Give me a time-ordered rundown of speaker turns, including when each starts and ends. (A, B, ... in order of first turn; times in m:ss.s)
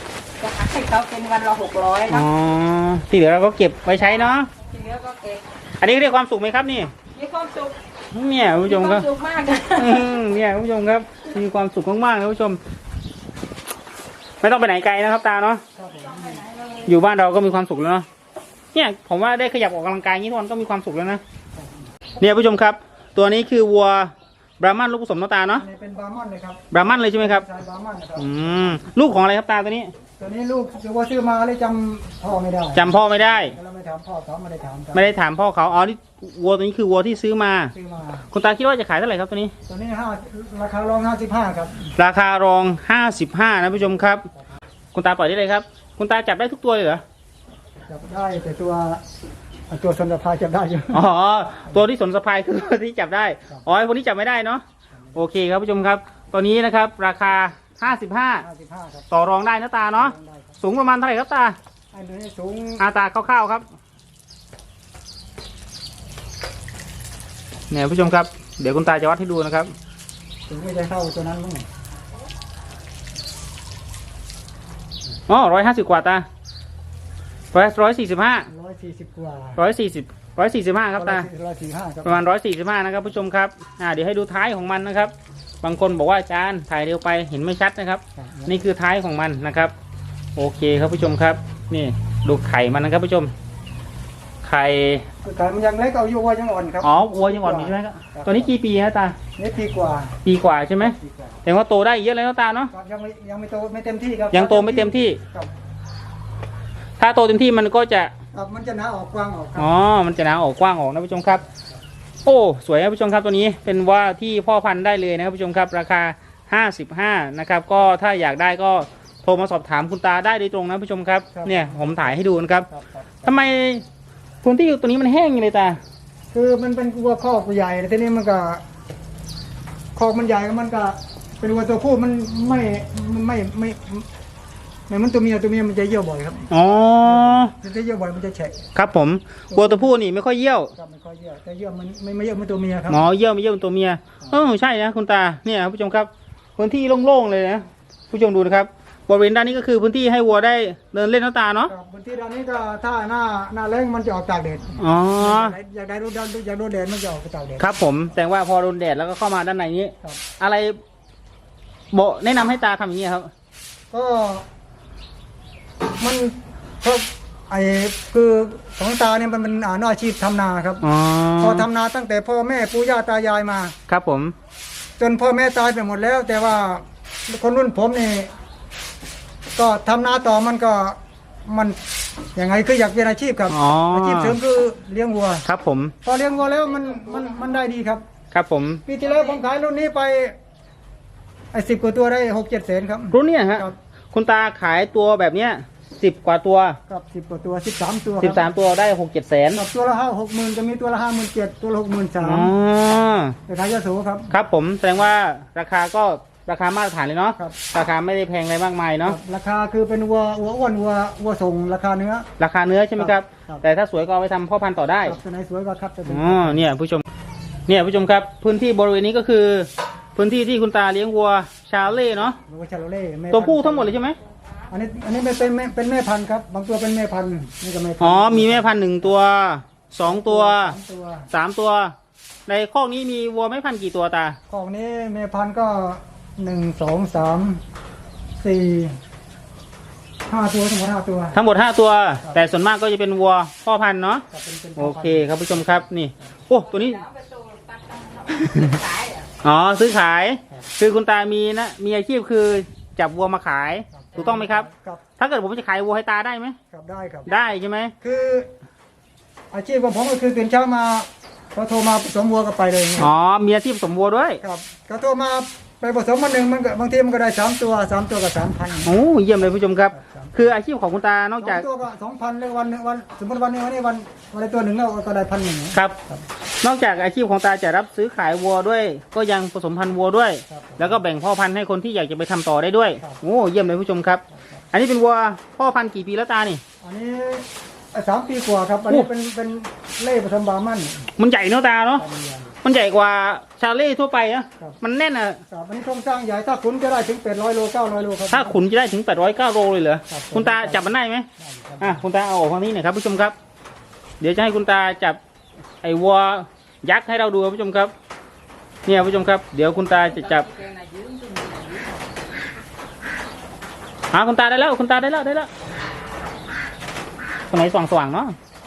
0:00.4-0:02.3 A
0:02.1-0:04.5 B
0:04.0-0:05.5 A
0:05.8-0:06.9 B
0:07.1-0:07.8 A
0:08.1-0:09.1 B
0:08.6-0:10.1 A
0:09.8-0:12.6 B
0:14.4-0:15.6 B
0:15.8-0:16.4 C
0:16.1-0:16.9 A
0:16.9-0:18.1 B
0:18.7-0:21.2 B
0:22.2-0:25.6 B
0:25.5-0:28.8 C
0:26.7-0:27.5 B
0:28.2-0:29.9 B
0:30.2-0:35.1 C
0:32.7-0:33.6 B
0:34.9-0:37.7 B
0:37.7-0:38.3 C
0:38.3-0:39.5 B
0:39.7-0:41.9 C
0:42.0-0:44.3 B
0:44.9-0:47.0 B
0:47.9-0:49.0 C
0:49.7-0:51.0 C
0:50.9-0:54.6 B
0:55.2-0:58.4 B
0:58.4-0:59.1 C
0:59.1-1:01.6 B
0:59.9-1:00.6 C
1:01.9-1:02.8 C
1:02.8-1:03.7 B
1:07.7-1:09.7 B
1:10.5-1:11.7 C
1:15.3-1:16.3 B
1:17.5-1:18.5 B
1:18.5-1:19.6 C
1:19.6-1:21.3 B
1:21.0-1:22.2 C
1:22.0-1:29.7 B
1:28.2-1:28.6 C
1:30.4-1:33.3 B
1:34.4-1:35.0 B
1:35.2-1:38.5 C
1:36.8-1:39.2 B
1:39.4-1:40.2 C
1:40.2-1:42.7 B
1:40.8-1:41.4 C
1:42.7-1:45.5 C
1:44.3-1:45.2 B
1:47.0-1:48.1 B
1:48.3-1:49.7 C
1:49.6-1:51.4 B
1:52.2-2:02.7 B
2:01.3-2:03.4 C
2:03.2-2:03.8 B
2:04.4-2:05.8 B
2:06.3-2:08.6 C
2:10.0-2:14.1 C
2:14.9-2:16.5 C
2:16.5-2:17.6 B
2:17.0-2:18.6 C
2:18.8-2:20.7 B
2:19.5-2:19.9 C
2:20.8-2:23.0 C
2:22.9-2:31.7 B
2:31.7-2:37.8 C
2:34.8-2:35.6 B
2:37.6-2:40.8 B
2:41.9-2:43.3 B
2:43.9-2:44.4 C
2:46.0-2:50.8 C
2:50.8-2:51.7 B
2:51.4-2:53.8 C
2:53.9-2:54.3 B
2:55.0-2:58.3 C
2:59.6-3:01.8 C
3:02.4-3:05.4 C
3:03.5-3:04.4 B
3:05.5-3:06.0 B
3:06.0-3:08.0 C
3:08.3-3:08.8 B
3:08.9-3:10.4 C
3:11.5-3:13.8 C
3:13.1-3:16.8 B
3:16.9-3:18.5 C
3:18.2-3:19.6 B
3:19.5-3:22.5 C
3:22.2-3:23.4 B
3:23.5-3:24.3 C
3:24.3-3:29.2 B
3:29.0-3:32.3 C
3:32.4-3:35.2 B
3:33.0-3:33.6 C
3:35.0-3:36.7 C
3:36.1-3:37.1 B
3:37.7-3:42.4 B
3:42.5-3:44.0 C
3:43.3-3:44.2 B
3:44.7-3:49.1 C
3:48.0-3:50.8 B
3:50.0-3:51.3 C
3:51.3-3:52.0 B
3:52.5-3:54.4 B
3:54.5-3:57.6 C
3:58.4-3:59.0 C
4:00.3-4:01.4 C
4:01.3-4:04.3 B
4:04.3-4:05.8 C
4:04.8-4:07.1 B
4:06.8-4:09.3 A
4:09.4-4:16.6 B
4:13.9-4:15.0 C
4:16.7-4:17.3 C
4:17.3-4:18.0 B
4:18.0-4:18.5 C
4:19.5-4:23.1 C
4:23.0-4:24.4 B
4:24.4-4:28.9 C
4:28.8-4:31.7 B
4:29.9-4:30.4 C
4:31.4-4:36.3 C
4:36.6-4:44.2 B
4:40.5-4:41.0 C
4:44.7-4:46.6 B
4:46.8-4:51.1 C
4:51.2-4:52.0 B
4:52.0-4:52.6 C
4:52.6-4:55.4 B
4:55.5-4:58.6 C
4:58.3-5:01.3 B
5:00.1-5:00.9 C
5:01.4-5:02.0 C
5:01.8-5:03.4 B
5:04.2-5:05.2 B
5:05.8-5:07.9 B
5:08.9-5:10.5 B
5:10.1-5:12.0 A
5:14.1-5:15.5 B
5:17.5-5:18.4 B